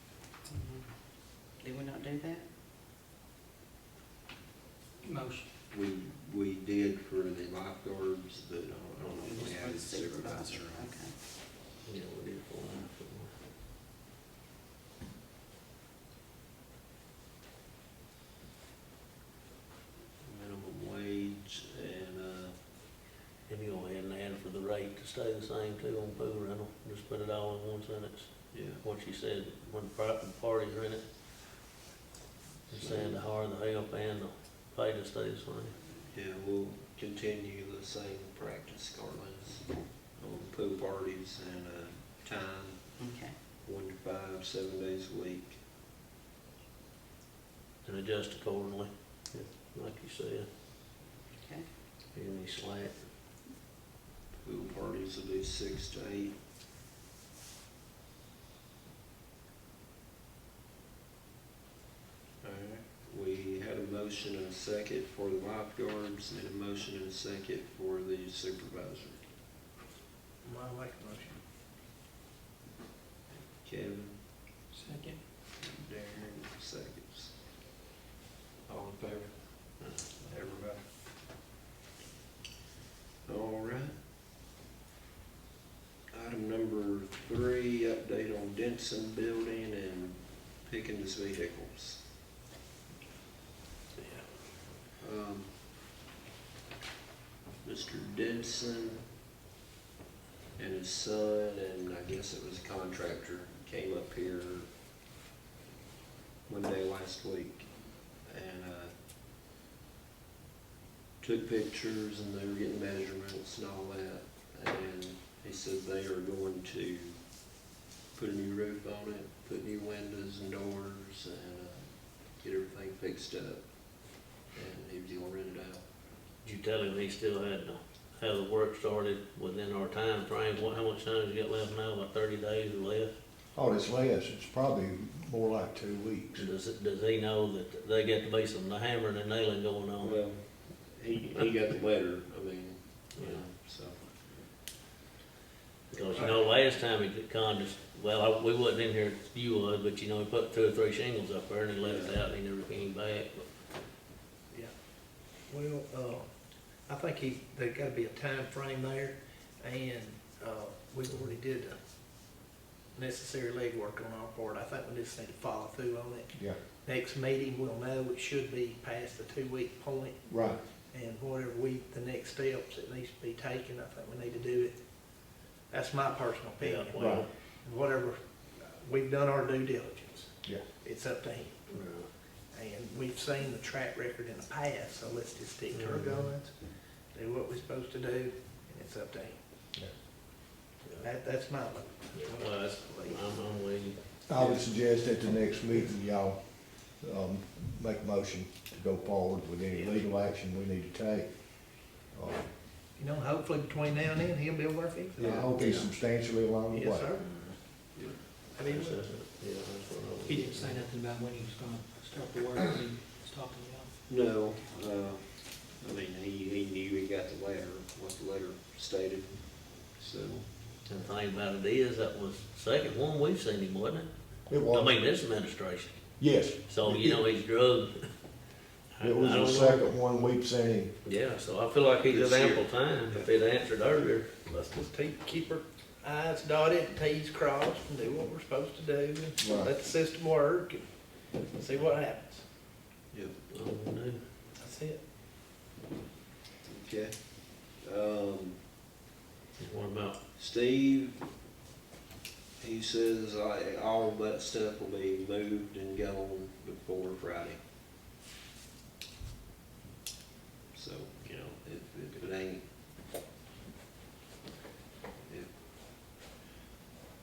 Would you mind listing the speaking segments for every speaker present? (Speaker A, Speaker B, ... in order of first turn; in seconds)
Speaker A: 0.5-2.5, 9.0-11.2, 43.0-43.4, 51.4-51.7
Speaker B: 5.0-5.5, 74.7-75.2, 210.2-213.9
Speaker C: 5.7-11.0, 20.2-22.6, 28.5-28.8, 32.7-33.2, 36.1-43.1, 43.6-45.6, 54.4-56.3, 62.4-69.2, 73.5-74.2, 75.6-77.4, 78.7-80.8, 83.3-83.9, 86.1-92.0, 95.0-95.5, 97.6-99.0, 100.6-104.7, 106.5-107.7, 108.2-108.9, 111.2-117.6, 118.2-125.8, 140.0-144.0, 151.8-152.2, 214.1-220.5, 232.1-233.3, 246.6-248.6, 250.4-251.2, 252.6-257.6, 260.7-262.7, 265.2-265.5
Speaker D: 11.8-13.3, 23.5-31.0, 32.7-35.8, 47.8-50.5, 52.1-53.0, 126.4-133.1, 136.3-140.2, 143.2-143.4, 145.9-153.5, 176.6-177.3, 181.7-182.1, 185.7-186.3, 192.1-194.7, 205.6-205.9, 207.2-207.5, 208.5-210.9, 220.9-228.1, 228.9-229.9, 231.0-234.3, 243.5-244.2, 249.6-250.2
Speaker E: 70.4-71.4, 80.3-80.8, 155.4-156.3, 156.9-161.8, 162.9-174.8, 175.7-181.8, 182.5-189.4, 191.0-193.2, 199.7-200.0, 203.0-205.5, 206.7-207.8, 208.5-209.2, 234.5-242.5, 244.6-245.0
Speaker F: 133.6-136.5, 166.3-166.6, 170.3-170.6, 177.0-177.3, 194.3-202.5, 205.2-207.2, 224.5-225.0, 226.2-227.2, 229.0-230.9, 239.4-239.7